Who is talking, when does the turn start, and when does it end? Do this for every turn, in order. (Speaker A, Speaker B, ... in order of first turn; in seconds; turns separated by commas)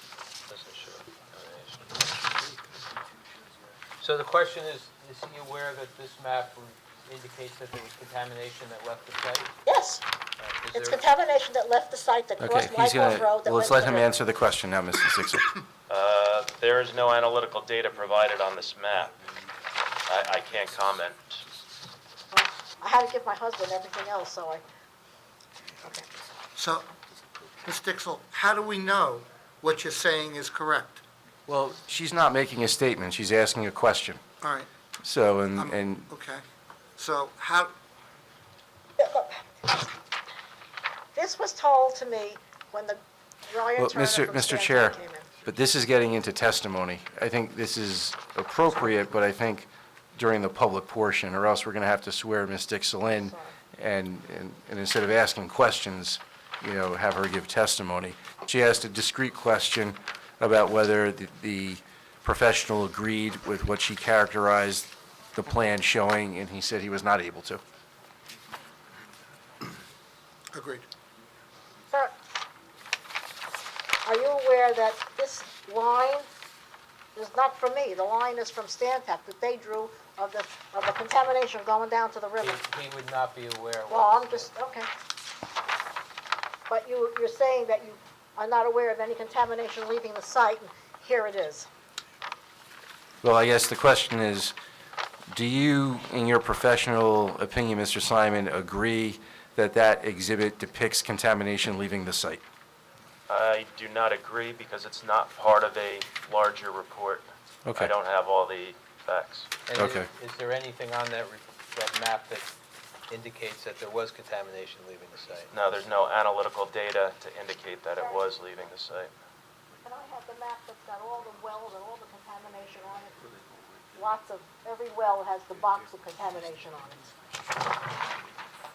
Speaker A: 0.5-2.1, Speaker A: 4.0-9.5, Speaker B: 9.7-10.0, Speaker A: 10.4-11.1, Speaker B: 10.7-14.2, Speaker C: 12.4-15.5, Speaker D: 15.9-19.1, Speaker D: 20.1-21.4, Speaker B: 22.3-24.6, Speaker E: 26.6-26.9, Speaker E: 27.6-31.0, Speaker C: 31.5-34.2, Speaker E: 34.4-34.7, Speaker C: 35.0-36.1, Speaker E: 35.6-36.4, Speaker E: 37.0-37.7, Speaker B: 39.0-39.9, Speaker B: 41.1-45.3, Speaker C: 43.8-67.6, Speaker B: 53.1-53.5, Speaker E: 70.5-70.9, Speaker B: 74.0-76.3, Speaker B: 77.2-82.6, Speaker A: 82.4-84.5, Speaker B: 83.9-84.9, Speaker B: 86.7-91.7, Speaker C: 93.2-94.5, Speaker C: 95.3-102.4, Speaker D: 103.3-109.5, Speaker C: 107.7-107.9, Speaker A: 109.7-112.5, Speaker C: 109.8-110.1, Speaker A: 113.1-115.5, Speaker D: 115.5-119.1, Speaker B: 118.0-118.3, Speaker B: 119.8-123.2, Speaker B: 123.9-127.1